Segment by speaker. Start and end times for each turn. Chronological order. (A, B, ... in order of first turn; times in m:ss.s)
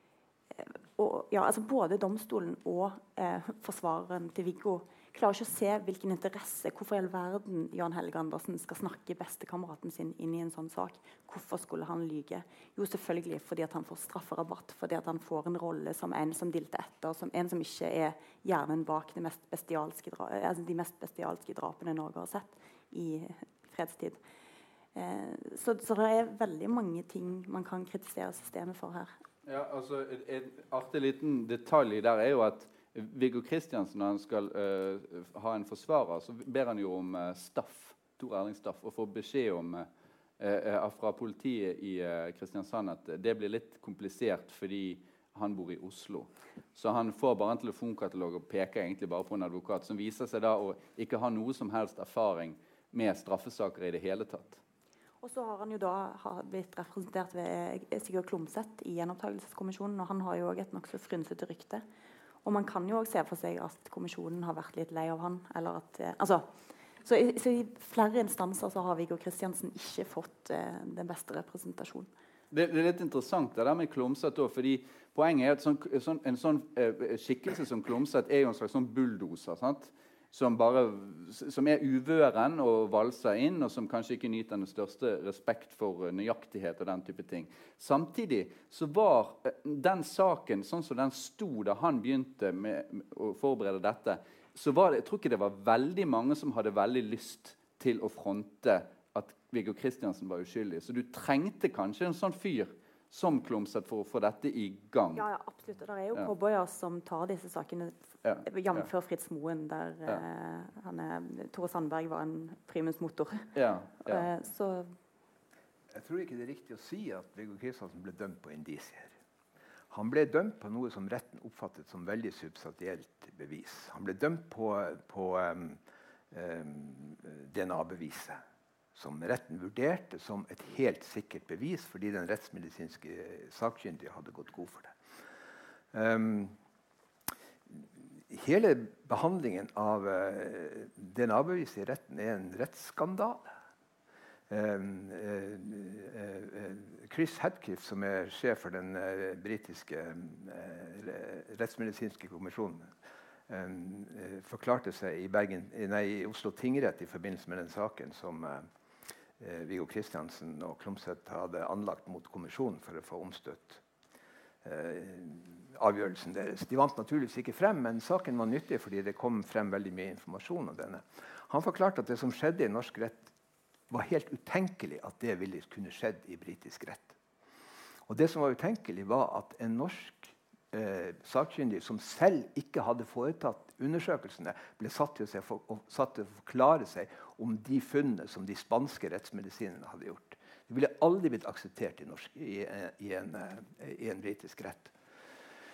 0:00.5-0:24.2 A
0:25.0-0:29.1 A
0:29.5-0:39.9 B
0:40.4-0:54.6 B
0:55.2-1:01.8 A
1:02.4-1:06.5 A
1:07.0-1:12.1 A
1:12.5-1:45.3 B
1:45.2-1:53.5 A
1:48.2-1:48.9 B
1:53.6-1:54.3 B
1:54.1-1:54.9 A
1:55.9-1:59.1 C
1:59.9-2:05.8 C
2:06.3-2:08.4 C
2:09.0-2:15.0 C
2:15.9-2:16.6 C
2:17.7-2:23.5 C
2:24.5-2:32.9 C
2:33.5-2:38.7 C
2:39.4-2:43.8 C
2:44.6-2:53.3 C
2:53.9-2:57.2 C
2:58.1-3:14.9 C